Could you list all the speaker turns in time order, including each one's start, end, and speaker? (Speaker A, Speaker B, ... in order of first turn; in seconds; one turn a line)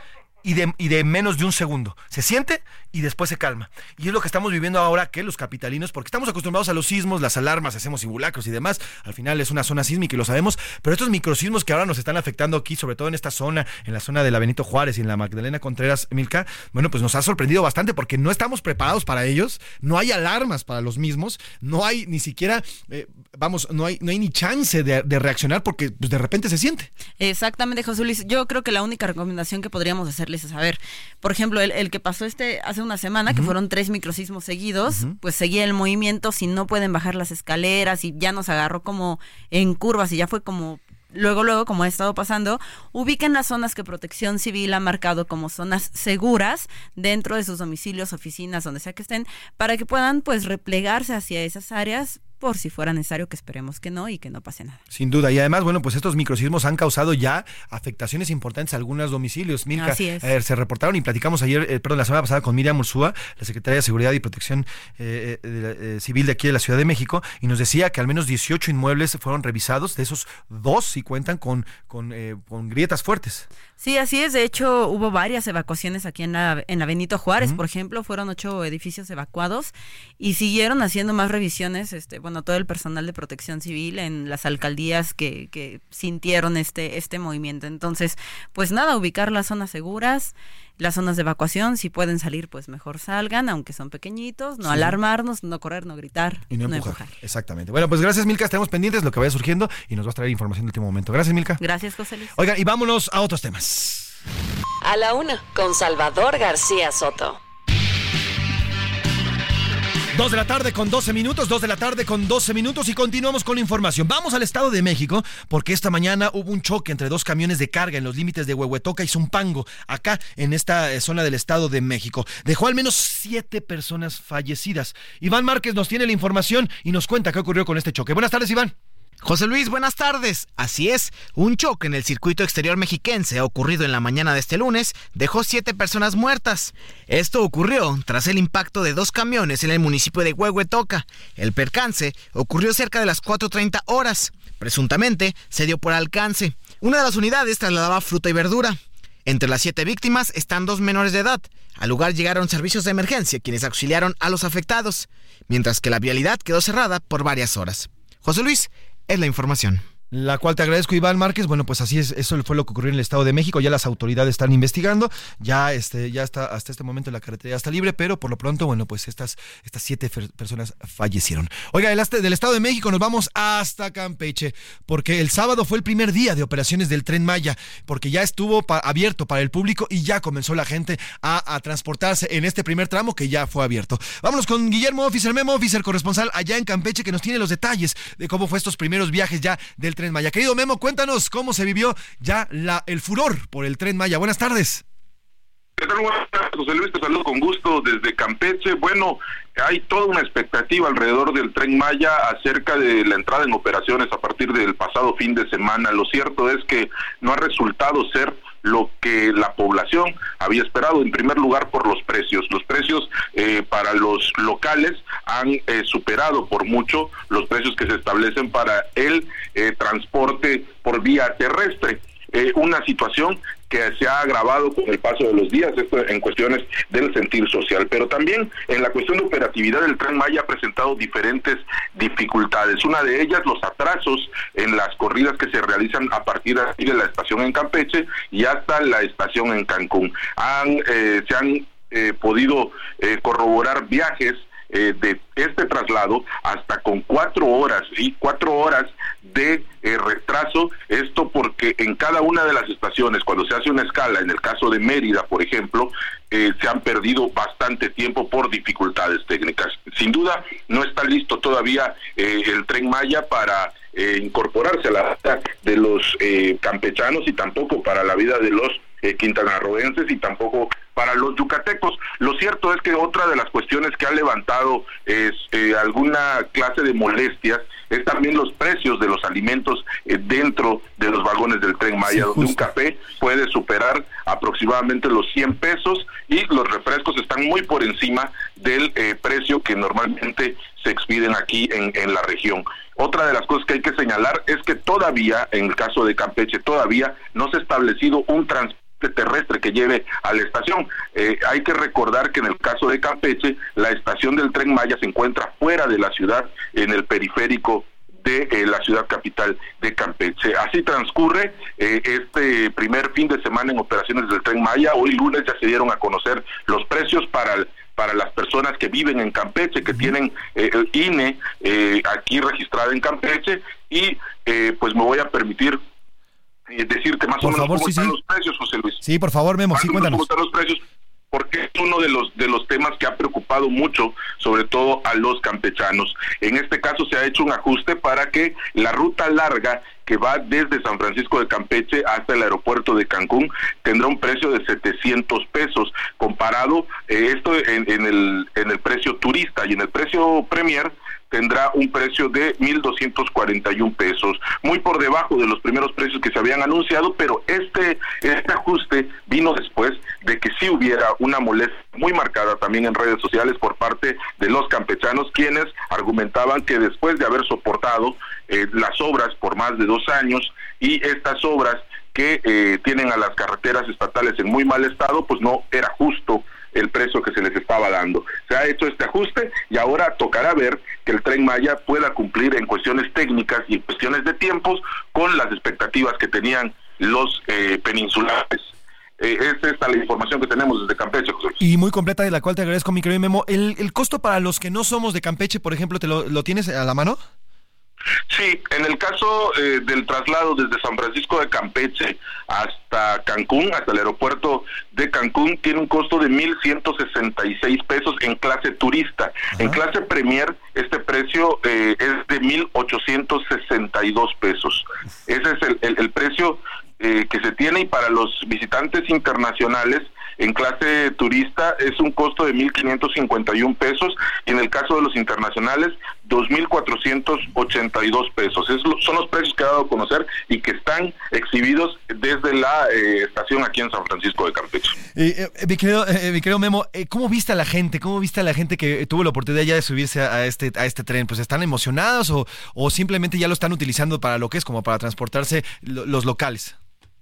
Speaker A: 0.4-26.9
Speaker B: 27.2-54.8
Speaker A: 54.9-73.5
Speaker B: 59.7-60.3
Speaker B: 73.8-97.1
Speaker A: 94.6-94.9
Speaker A: 96.5-101.6
Speaker B: 101.6-102.3
Speaker A: 102.3-104.1
Speaker C: 104.8-107.4
Speaker A: 110.1-128.7
Speaker D: 129.2-159.8
Speaker A: 160.1-194.8
Speaker E: 195.8-325.8
Speaker A: 282.2-282.6
Speaker E: 326.7-329.0
Speaker A: 327.4-328.1
Speaker A: 329.0-330.2
Speaker E: 329.7-391.6
Speaker A: 391.6-397.2
Speaker E: 398.3-434.9
Speaker A: 435.1-446.8